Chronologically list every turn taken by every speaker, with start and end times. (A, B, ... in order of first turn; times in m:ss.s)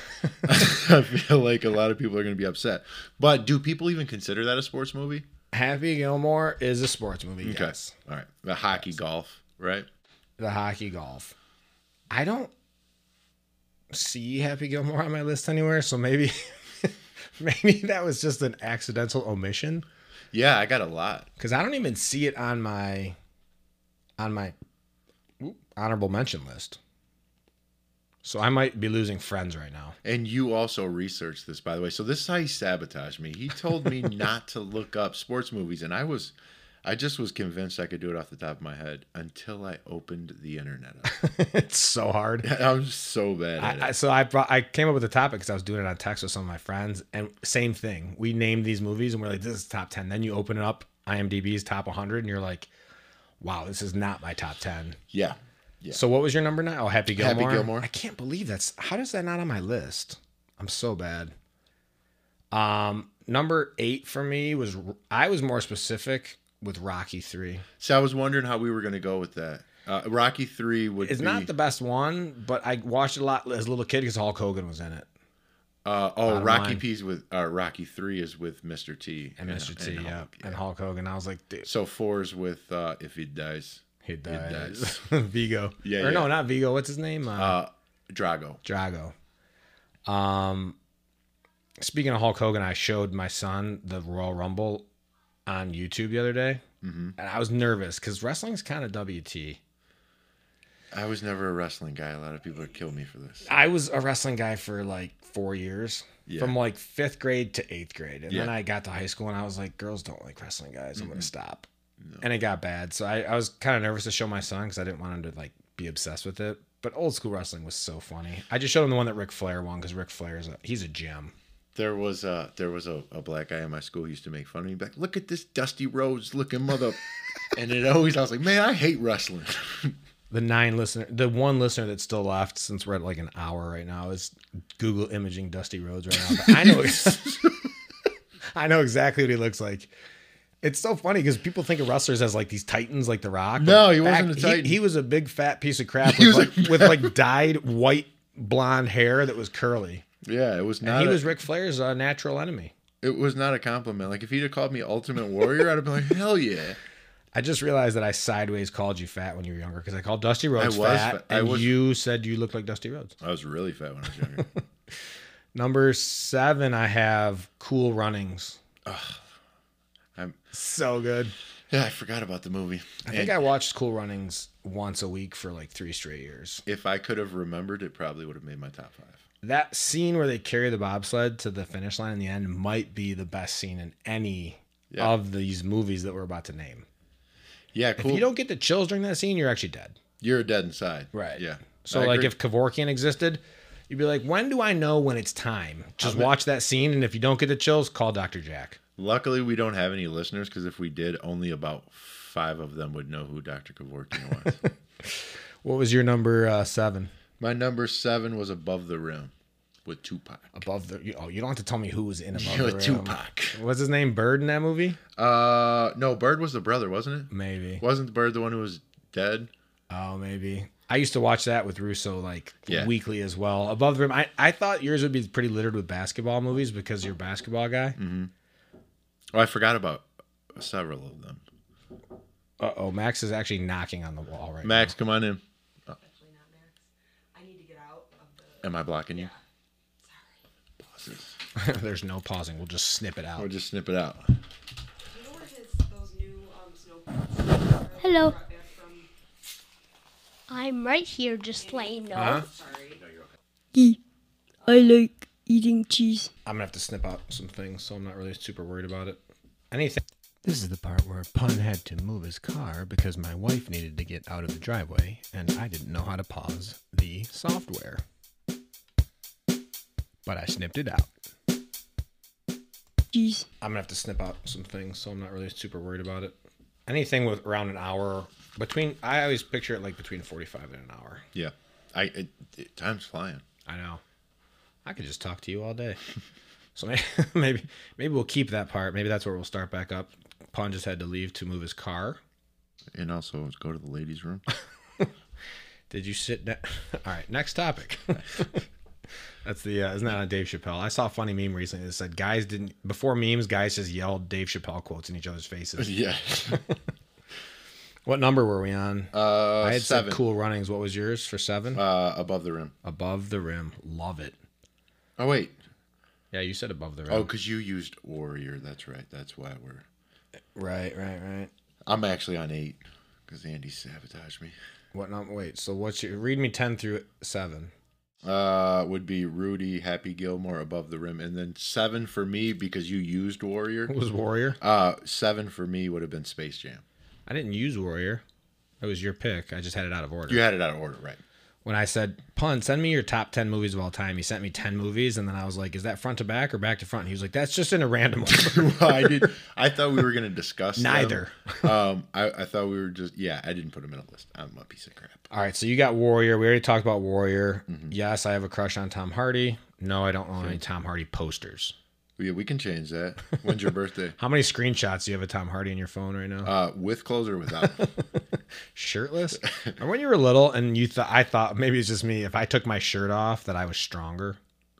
0:00.4-0:05.2 A
0:05.5-0:07.9 B
0:07.4-0:09.9 A
0:10.4-0:11.3 B
0:12.1-0:12.5 B
0:13.9-0:19.8 B
0:20.3-0:21.3 A
0:21.4-0:23.2 B
0:24.2-0:24.5 B
0:25.4-0:26.8 B
0:28.2-0:30.0 B
0:30.0-0:41.1 A
0:41.0-0:42.5 B
0:42.4-0:43.9 A
0:43.6-0:52.7 B
0:53.4-0:55.0 B
0:55.1-0:56.0 A
0:55.9-1:01.3 B
0:57.2-0:57.9 A
1:02.5-1:07.6 B
1:07.8-1:11.5 A
1:11.0-1:15.0 B
1:15.8-1:20.6 A
1:16.2-1:16.8 B
1:19.4-1:21.7 B
1:21.6-1:25.0 A
1:24.0-1:27.6 B
1:25.8-1:26.4 A
1:27.4-1:28.6 A
1:28.6-1:29.1 B
1:30.0-1:30.8 B
1:31.8-1:34.8 B
1:35.4-1:36.6 B
1:36.8-1:37.2 A
1:37.2-1:39.6 B
1:40.9-1:43.5 A
1:43.4-1:51.7 B
1:46.3-1:46.6 A
1:51.0-1:51.3 A
1:52.2-2:01.3 B
2:01.7-2:07.0 A
2:07.5-2:10.0 A
2:10.3-2:17.4 B
2:16.2-2:17.6 A
2:18.5-2:19.9 B
2:20.6-2:30.0 B
2:23.6-2:24.8 A
2:26.0-2:27.1 A
2:30.2-2:31.2 A
2:30.8-2:32.7 B
2:33.0-2:36.8 A
2:37.3-2:43.1 B
2:40.6-2:41.7 A
2:43.2-2:44.4 A
2:45.5-2:48.6 B
2:48.8-2:49.2 A
2:50.5-2:51.3 B
2:51.7-2:53.4 A
2:53.0-2:56.6 B
2:56.6-2:59.2 A
2:59.4-3:06.8 B
3:07.7-3:08.3 A
3:08.0-3:10.0 B
3:10.2-3:12.3 A
3:11.1-3:18.8 B
3:16.0-3:16.3 A
3:19.0-3:24.6 A
3:24.4-3:27.1 B
3:27.4-3:29.3 A
3:29.8-3:30.5 A
3:30.5-3:35.0 B
3:32.3-3:33.6 A
3:35.2-3:39.5 A
3:37.3-3:37.8 B
3:39.9-3:48.0 B
3:42.7-3:42.9 A
3:48.0-3:48.3 A
3:49.3-3:51.4 A
3:52.6-3:54.9 B
3:54.6-3:55.4 A
3:55.9-3:59.4 C
3:58.6-3:59.3 A
4:00.0-4:00.4 C
4:00.9-4:01.3 A
4:01.6-4:03.5 B
4:03.4-4:04.3 A
4:05.1-4:09.1 C
4:08.0-4:08.3 D
4:10.5-4:12.4 D
4:11.6-4:13.2 C
4:12.1-4:12.4 B
4:13.7-4:14.0 D
4:14.6-4:15.0 C
4:14.7-4:16.3 D
4:16.4-4:19.2 B
4:19.7-4:28.0 B
4:30.2-4:31.1 B
4:33.1-4:33.4 D
4:33.6-4:36.3 B
4:36.9-4:41.2 B
4:41.3-4:43.4 A
4:43.6-4:44.0 B
4:44.8-4:46.0 B
4:46.8-4:52.2 B
4:52.9-4:54.4 A
4:55.9-4:58.6 B
4:59.4-5:06.0 B
5:05.8-5:06.6 A
5:06.5-5:06.7 B
5:08.0-5:11.8 B
5:09.1-5:10.2 A
5:11.7-5:12.7 A
5:12.8-5:14.3 B
5:15.2-5:15.5 A
5:16.3-5:17.3 B
5:17.1-5:19.8 A
5:20.5-5:21.5 B
5:21.8-5:24.5 A
5:24.9-5:27.7 B
5:28.2-5:33.9 A
5:33.9-5:34.6 B
5:34.6-5:36.8 A
5:37.3-5:38.2 B
5:38.8-5:40.4 B
5:40.3-5:41.2 A
5:41.6-5:49.2 B
5:48.2-5:55.2 A
5:50.8-5:51.7 B
5:55.3-6:01.7 B
5:57.7-5:57.9 A
6:02.2-6:04.2 A
6:04.2-6:06.5 B
6:06.4-6:07.9 A
6:07.6-6:08.0 B
6:08.7-6:14.4 B
6:09.4-6:09.7 A